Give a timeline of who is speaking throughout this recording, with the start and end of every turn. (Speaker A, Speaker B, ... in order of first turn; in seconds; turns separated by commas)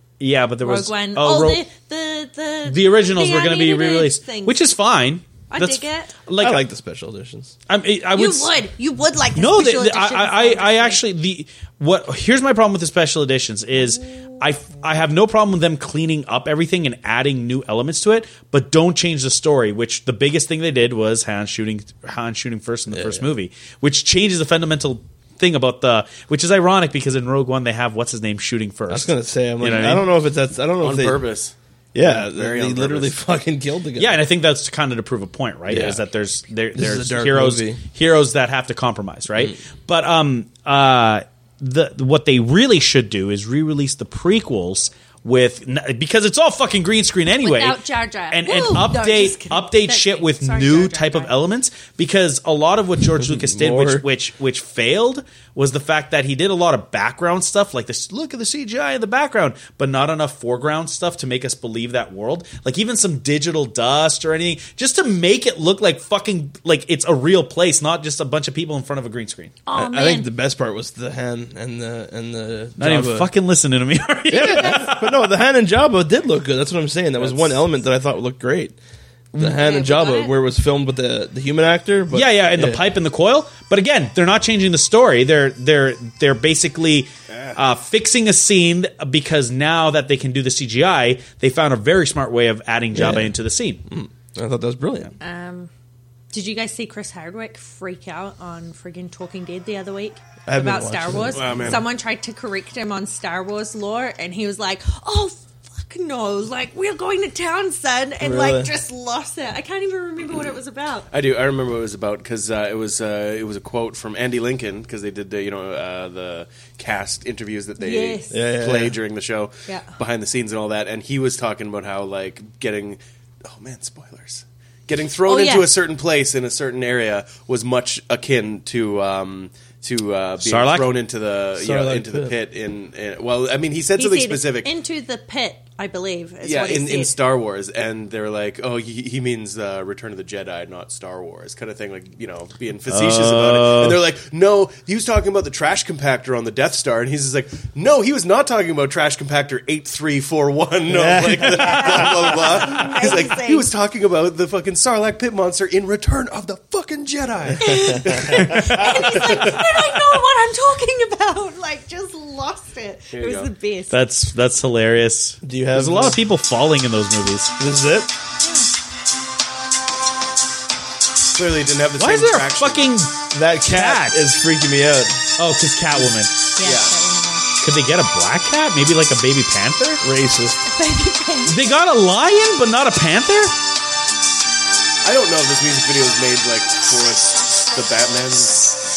Speaker A: 0.2-1.6, Speaker B: 0.6-4.6, Speaker A: 2.6-6.6, Speaker B: 5.5-6.2, Speaker C: 6.3-7.5, Speaker A: 7.7-8.6, Speaker B: 8.1-11.0, Speaker A: 9.3-30.1, Speaker C: 22.9-23.2, Speaker C: 28.9-31.2, Speaker D: 30.8-33.1, Speaker C: 31.9-34.2, Speaker A: 34.0-69.6, Speaker D: 35.7-36.0, Speaker C: 36.7-37.8, Speaker B: 47.4-51.3, Speaker C: 53.1-54.0, Speaker B: 69.7-70.3, Speaker C: 69.7-73.3, Speaker A: 72.8-75.2, Speaker C: 74.3-78.8, Speaker B: 74.4-74.9, Speaker D: 77.2-77.6, Speaker C: 79.3-82.8, Speaker B: 79.4-80.3, Speaker A: 82.1-93.8, Speaker D: 87.3-87.6, Speaker C: 92.9-93.3, Speaker C: 93.9-95.1, Speaker B: 95.2-95.7, Speaker B: 96.3-111.1, Speaker C: 100.5-101.8, Speaker D: 101.3-101.8, Speaker C: 108.2-108.7, Speaker D: 111.1-134.7, Speaker B: 117.8-118.4, Speaker C: 118.3-119.0, Speaker B: 119.7-119.9, Speaker B: 125.3-125.7, Speaker A: 130.4-131.0, Speaker C: 131.6-132.3, Speaker B: 133.9-137.2, Speaker D: 136.4-158.4, Speaker A: 142.9-144.0, Speaker C: 150.9-152.6, Speaker B: 151.5-153.7, Speaker B: 157.6-164.0, Speaker C: 157.7-158.5, Speaker A: 158.2-159.2, Speaker D: 159.1-159.7, Speaker D: 163.1-163.5, Speaker A: 163.9-167.6, Speaker C: 165.4-166.2, Speaker C: 167.6-168.1, Speaker B: 168.4-168.7, Speaker D: 171.3-172.8, Speaker A: 172.0-174.3, Speaker C: 173.3-175.2, Speaker A: 175.4-176.3, Speaker B: 176.5-177.5, Speaker D: 176.6-176.9, Speaker A: 177.6-180.0, Speaker C: 180.0-180.7, Speaker B: 180.7-181.8, Speaker A: 181.4-183.5, Speaker D: 185.0-188.7